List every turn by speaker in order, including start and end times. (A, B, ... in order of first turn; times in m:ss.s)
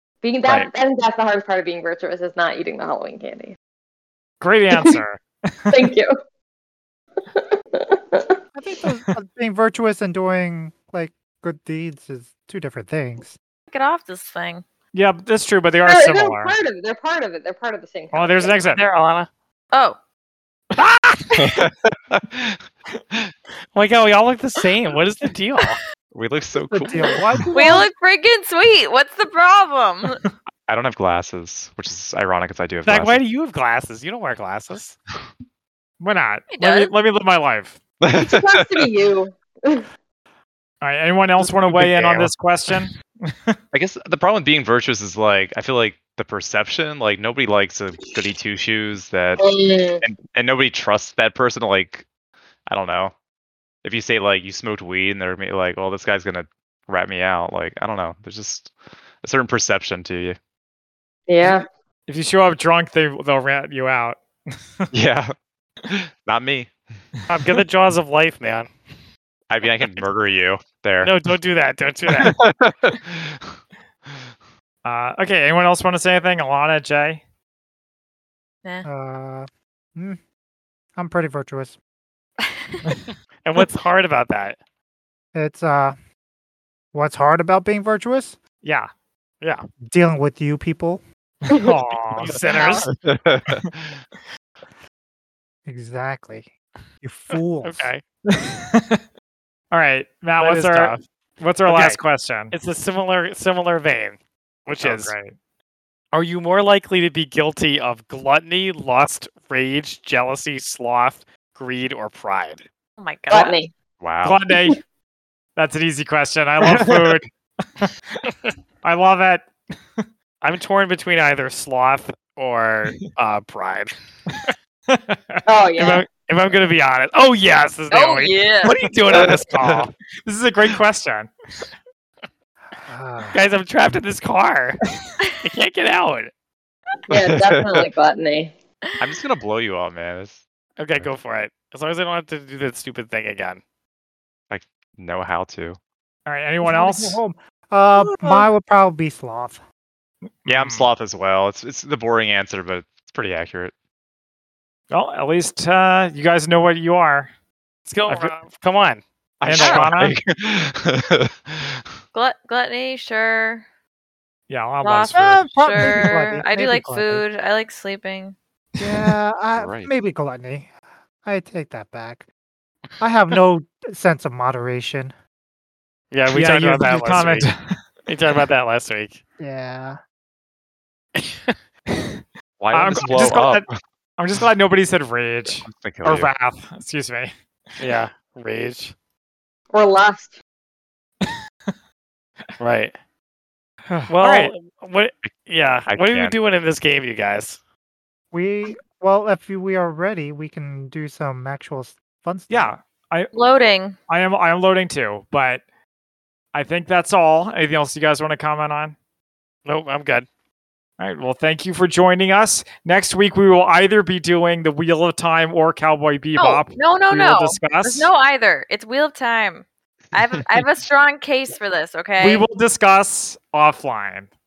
0:00.2-0:03.6 A
0:04.4-0:05.9 B
0:05.7-0:06.1 A
0:07.3-0:08.4 A
0:08.5-0:13.4 C
0:13.7-0:14.6 D
0:14.9-0:16.5 B
0:15.8-0:18.6 A
0:18.1-0:18.8 B
0:18.7-0:19.3 E
0:19.7-0:20.0 D
0:20.7-0:21.6 B
0:21.4-0:23.3 F
0:23.7-0:25.8 E
0:26.1-0:27.5 F
0:26.7-0:27.9 C
0:27.5-0:30.2 D
0:30.7-0:33.2 F
0:32.8-0:35.0 E
0:36.0-0:37.8 B
0:36.5-0:36.9 D
0:38.0-0:38.8 F
0:38.1-0:39.9 A
0:40.8-0:43.6 B
0:41.4-0:42.7 E
0:43.7-0:49.4 F
0:49.4-0:50.0 A
0:50.0-0:52.0 F
0:52.7-0:53.1 F
0:53.8-1:00.4 F
1:01.3-1:01.6 A
1:02.1-1:04.2 B
1:04.9-1:05.3 F
1:05.8-1:06.7 F
1:07.3-1:08.7 E
1:09.5-1:11.1 F
1:11.0-1:12.3 E
1:12.1-1:13.4 F
1:14.8-1:17.2 B
1:18.8-1:20.2 C
1:21.0-1:21.8 C
1:22.5-1:22.8 D
1:23.4-1:24.6 E
1:25.3-1:26.0 C
1:26.9-1:28.4 C
1:28.6-1:28.9 B
1:29.9-1:31.0 C
1:31.5-1:32.4 B
1:32.2-1:32.9 E
1:32.5-1:32.8 C
1:32.8-1:34.0 F
1:35.6-1:36.5 C
1:37.0-1:37.9 C
1:37.6-1:38.0 E
1:38.3-1:39.0 B
1:39.7-1:42.5 B
1:40.4-1:41.0 E
1:41.6-1:42.0 E
1:42.5-1:45.1 E
1:44.8-1:45.3 B
1:46.1-1:52.6 E
1:53.0-1:53.6 D
1:53.3-1:53.7 A
1:54.0-1:54.4 F
1:54.2-1:54.8 B
1:55.6-1:58.2 B
1:58.2-1:58.5 E
1:58.8-2:00.0 B
2:00.4-2:04.5 E
2:04.3-2:05.4 B
2:05.4-2:06.1 A
2:05.8-2:09.9 E
2:07.9-2:08.7 D
2:09.1-2:09.9 F
2:10.2-2:11.3 B
2:12.8-2:13.4 C
2:13.3-2:14.8 E
2:15.4-2:16.3 E
2:17.1-2:18.5 A
2:17.1-2:17.9 F
2:19.0-2:20.4 F
2:20.8-2:23.6 E
2:24.5-2:25.8 F
2:26.2-2:27.2 B
2:26.6-2:29.6 C
2:30.4-2:30.8 B
2:30.5-2:33.7 F
2:34.9-2:37.3 B
2:37.8-2:39.0 E
2:38.1-2:38.3 B
2:39.4-2:41.8 F
2:39.4-2:40.1 B
2:42.1-2:43.6 D
2:44.5-2:46.0 B
2:44.8-2:48.4 D
2:45.1-2:47.2 C
2:48.8-2:50.7 C
2:49.5-2:49.9 F
2:51.2-2:52.2 C
2:53.0-2:55.1 C
2:56.1-2:57.5 E
2:56.3-2:57.8 B
2:58.1-2:59.2 E
2:59.4-3:00.0 C
3:01.2-3:01.5 E
3:02.6-3:03.8 F
3:02.7-3:07.3 B
3:05.6-3:06.3 F
3:07.8-3:08.9 E
3:09.7-3:10.4 A
3:12.6-3:12.9 E
3:13.9-3:14.5 B
3:14.1-3:17.6 E
3:15.9-3:16.4 F
3:18.3-3:22.7 C
3:22.5-3:23.3 B
3:23.3-3:23.9 D
3:24.1-3:25.6 B
3:26.5-3:29.0 B
3:29.6-3:30.3 E
3:31.0-3:38.1 B
3:36.4-3:42.4 D
3:42.2-3:44.3 B